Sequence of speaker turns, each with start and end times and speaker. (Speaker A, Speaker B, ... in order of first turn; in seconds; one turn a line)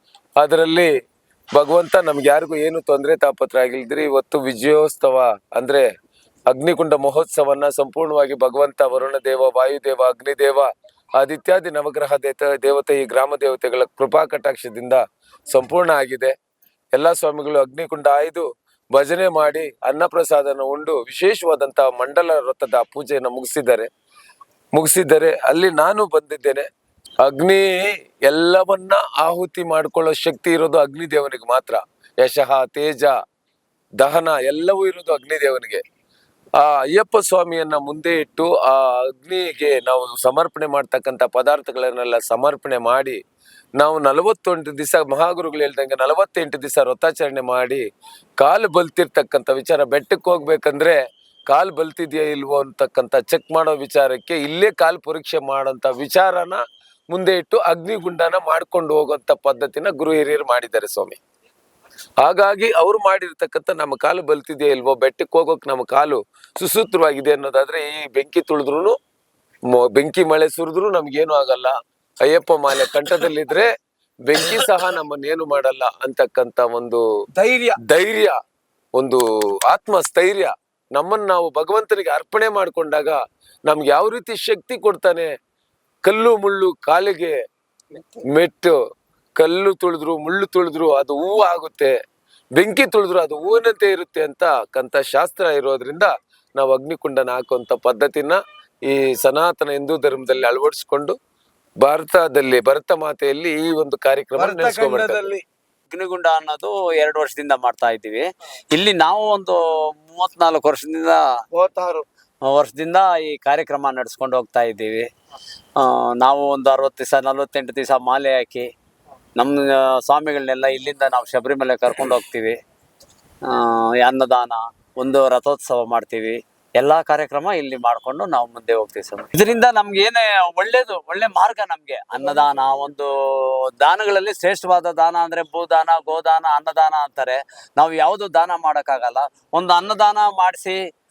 Speaker A: 0.4-0.9
Speaker A: 1.5-5.9
Speaker A: 6.5-16.3
Speaker A: 16.9-23.9
Speaker A: 24.8-26.7
Speaker A: 27.2-33.2
Speaker A: 34.0-35.8
Speaker A: 36.6-43.2
Speaker A: 43.8-47.8
Speaker A: 48.4-61.2
Speaker A: 62.2-69.0
Speaker A: 69.7-73.7
Speaker A: 74.2-77.0
Speaker B: 77.4-77.8
Speaker A: 77.8-78.4
Speaker A: 79.0-85.3
Speaker A: 86.0-87.4
Speaker A: 88.3-88.8
Speaker A: 89.4-91.9
Speaker A: 92.5-101.2
Speaker A: 101.8-105.2
Speaker B: 104.4-105.4
Speaker C: 105.9-111.3
Speaker B: 111.5-112.0
Speaker C: 112.5-115.1
Speaker C: 115.8-118.7
Speaker C: 119.4-122.6
Speaker C: 123.5-140.8